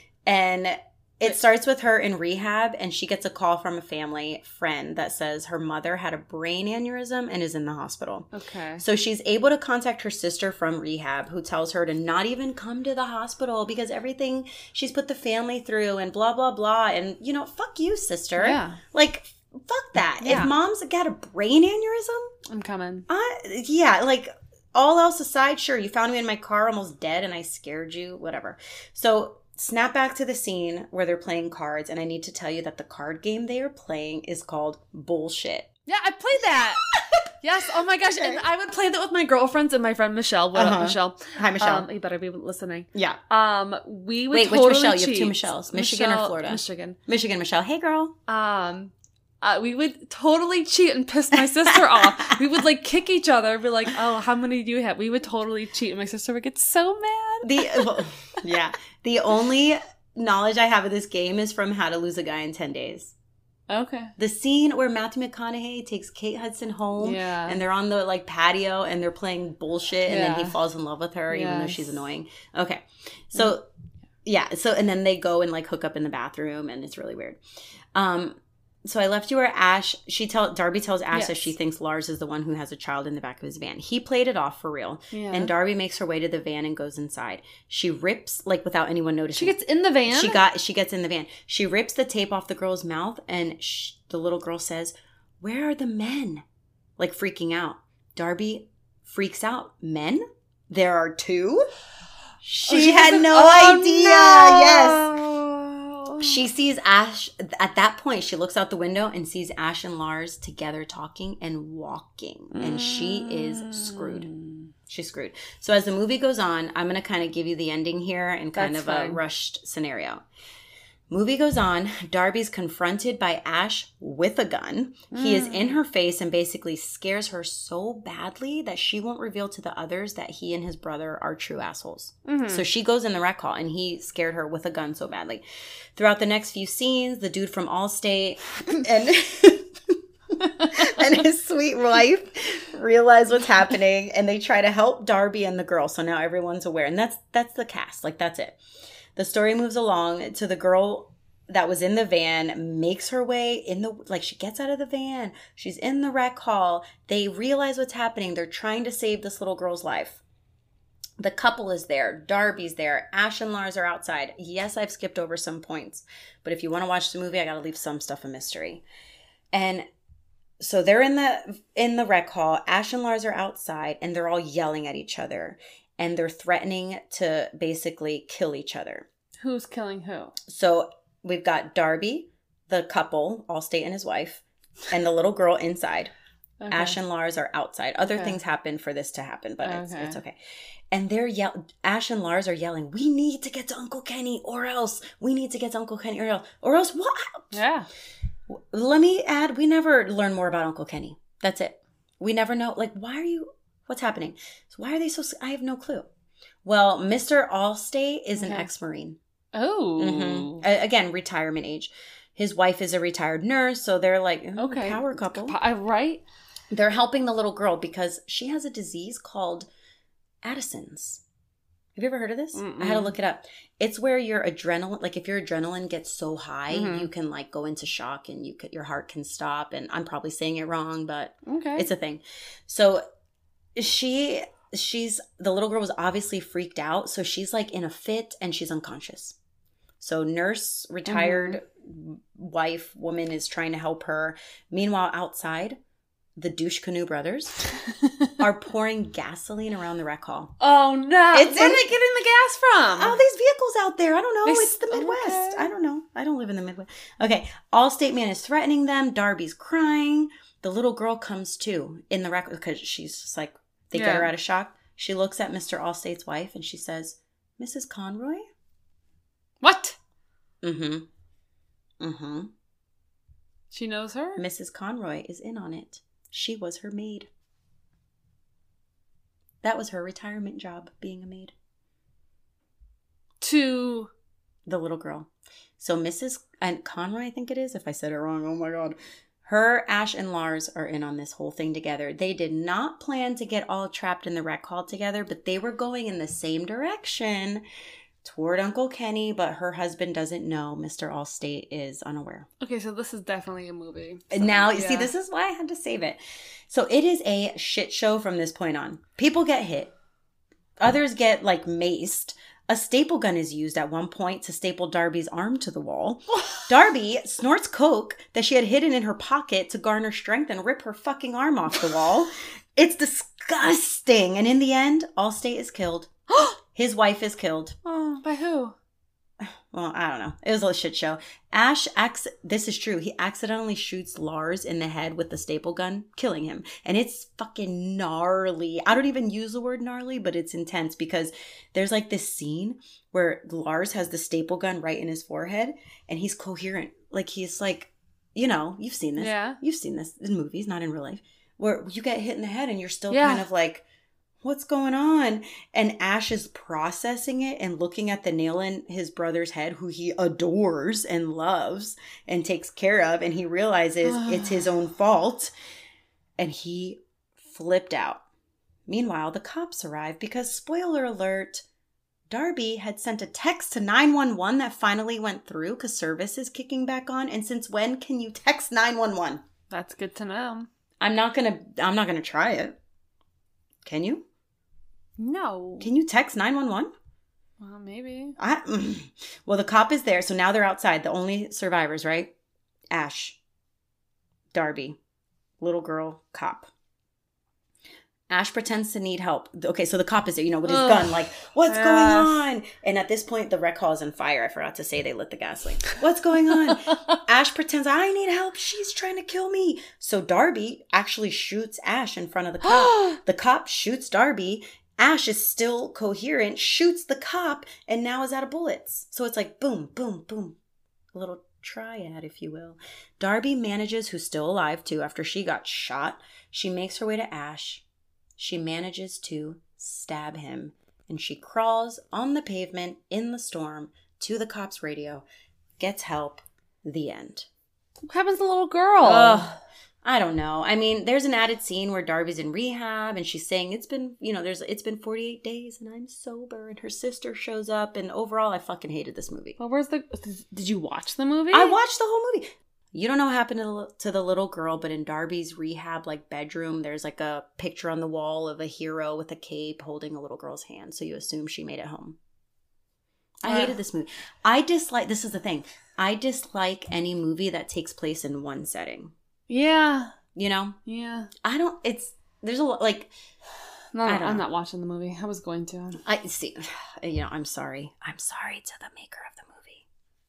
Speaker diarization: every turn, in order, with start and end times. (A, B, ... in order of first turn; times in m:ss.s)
0:00.2-0:22.3 A
0:08.3-0:08.8 B
0:18.4-0:18.8 B
0:20.2-0:20.5 B
0:22.5-0:23.1 B
0:23.1-0:35.7 A
0:35.9-0:36.8 B
0:37.4-0:47.0 B
0:38.0-0:38.4 A
0:40.5-0:41.9 A
0:42.9-0:43.2 A
0:44.3-0:48.1 A
0:48.3-0:58.0 B
0:51.6-0:52.3 A
0:57.4-1:03.1 A
1:03.7-1:04.1 B
1:04.2-1:13.6 A
1:07.0-1:07.6 B
1:10.0-1:10.6 B
1:11.3-1:11.8 B
1:14.2-1:17.4 A
1:17.9-1:29.6 A
1:21.1-1:21.5 B
1:25.1-1:25.5 B
1:29.3-1:30.4 B
1:30.1-1:36.4 A
1:37.0-1:41.6 A
1:42.4-1:45.1 A
1:42.7-1:46.4 B
1:46.2-1:54.3 A
1:52.5-1:54.6 B
1:54.9-2:00.2 A
1:58.5-1:59.2 B
2:01.1-2:15.4 A
2:05.1-2:05.8 B
2:12.2-2:12.6 B
2:16.0-2:28.6 A
2:29.2-2:40.2 A
2:41.2-2:48.8 A
2:49.5-2:49.8 A
2:50.6-2:59.0 A
2:59.4-3:00.4 B
3:00.5-3:06.1 A
3:06.6-3:07.0 B
3:06.7-3:10.4 A
3:08.0-3:08.4 B
3:09.6-3:10.2 B
3:10.9-3:17.5 A
3:17.5-3:17.9 B
3:18.5-3:26.1 A
3:26.6-3:29.2 A
3:28.4-3:28.7 B
3:29.5-3:30.6 B
3:30.0-3:35.6 A
3:34.6-3:36.2 B
3:36.7-3:39.7 A
3:40.4-3:41.2 A
3:42.0-3:53.0 A
3:42.5-3:43.1 B
3:46.7-3:47.1 B
3:51.4-3:51.9 B
3:53.7-3:59.4 A
4:00.0-4:05.8 A
4:01.0-4:01.6 B
4:06.4-4:07.6 A
4:07.8-4:08.3 B
4:08.4-4:10.6 A
4:10.6-4:13.2 B
4:11.3-4:11.9 A
4:13.0-4:28.4 A
4:14.4-4:15.7 B
4:23.9-4:24.3 B
4:29.6-4:30.0 B
4:30.6-4:31.1 A
4:32.0-4:32.5 A
4:33.7-4:34.4 B
4:34.4-4:37.3 A
4:39.6-4:41.5 A
4:43.4-4:44.1 B
4:44.6-4:57.6 A
4:58.2-5:02.5 A
5:02.6-5:05.1 B
5:04.3-5:06.2 A
5:06.7-5:09.9 A
5:10.8-5:26.1 A
5:26.3-5:26.6 B
5:26.7-5:27.8 A
5:27.8-5:28.8 B
5:29.4-5:53.8 A
5:49.2-5:49.6 B
5:53.1-5:53.5 B
5:54.4-6:05.5 A
6:04.1-6:04.7 B
6:06.4-6:08.2 A
6:08.9-6:11.6 A
6:12.3-6:19.4 A
6:19.7-6:20.7 B
6:21.0-6:22.8 A
6:23.8-6:24.2 A
6:25.2-6:25.9 B
6:25.8-6:26.9 A
6:27.6-6:28.4 B
6:28.4-6:32.3 A
6:32.9-6:33.4 A
6:34.5-6:35.0 A
6:35.6-6:36.7 A
6:38.3-7:00.6 A
6:40.6-6:42.4 B
6:52.6-6:53.2 B
7:01.1-7:07.8 A
7:08.4-7:15.2 A
7:15.8-7:17.5 A
7:18.0-7:19.6 B
7:19.0-7:29.6 A
7:29.6-7:31.7 B
7:31.5-7:42.2 A
7:43.4-7:49.1 A
7:43.4-7:43.8 B
7:49.5-7:50.1 B
7:50.3-7:50.8 A
7:50.8-7:51.3 B
7:51.4-7:53.1 A
7:53.9-7:56.0 B
7:54.0-7:54.5 A
7:56.0-7:59.8 A